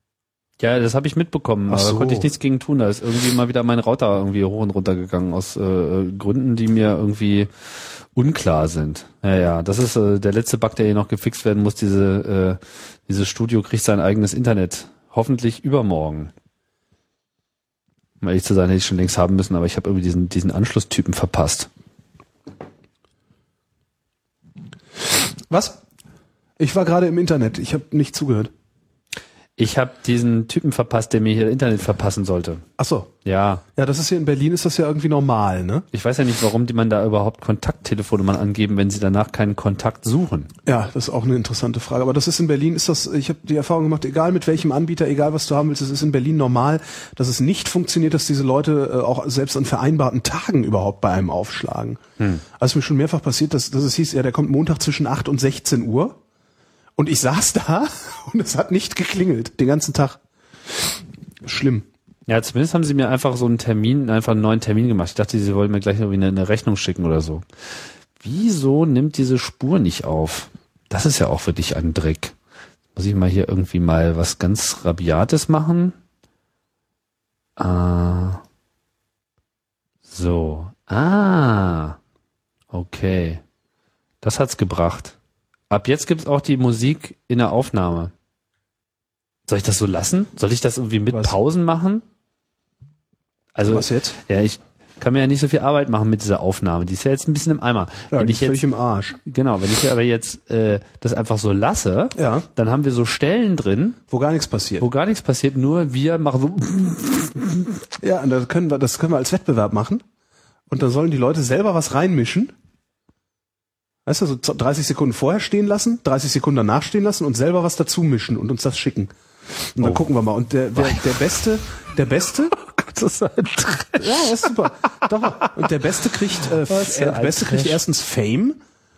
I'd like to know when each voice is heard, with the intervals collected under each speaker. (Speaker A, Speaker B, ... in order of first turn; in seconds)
Speaker A: 0.6-7.5, 8.2-16.3, 18.2-21.7, 29.6-32.6, 33.2-33.6, 35.9-40.5, 62.3-67.4, 68.2-72.3, 73.0-76.0, 77.6-78.4, 80.1-82.0, 82.7-83.4, 84.2-85.2, 85.7-88.1, 89.5-92.0, 93.5-98.6, 99.2-104.0, 104.8-107.8, 120.8-121.1, 122.6-124.6, 125.2-125.7, 126.3-127.8
Speaker B: 1.7-2.3, 25.5-25.8, 26.6-28.5, 32.8-33.1, 33.8-35.9, 40.7-52.0, 52.5-56.2, 57.0-61.9, 91.1-91.4, 93.6-94.2, 98.1-99.2, 102.2-102.5, 104.1-104.9, 108.0-110.0, 110.7-112.5, 114.1-122.6, 124.0-128.6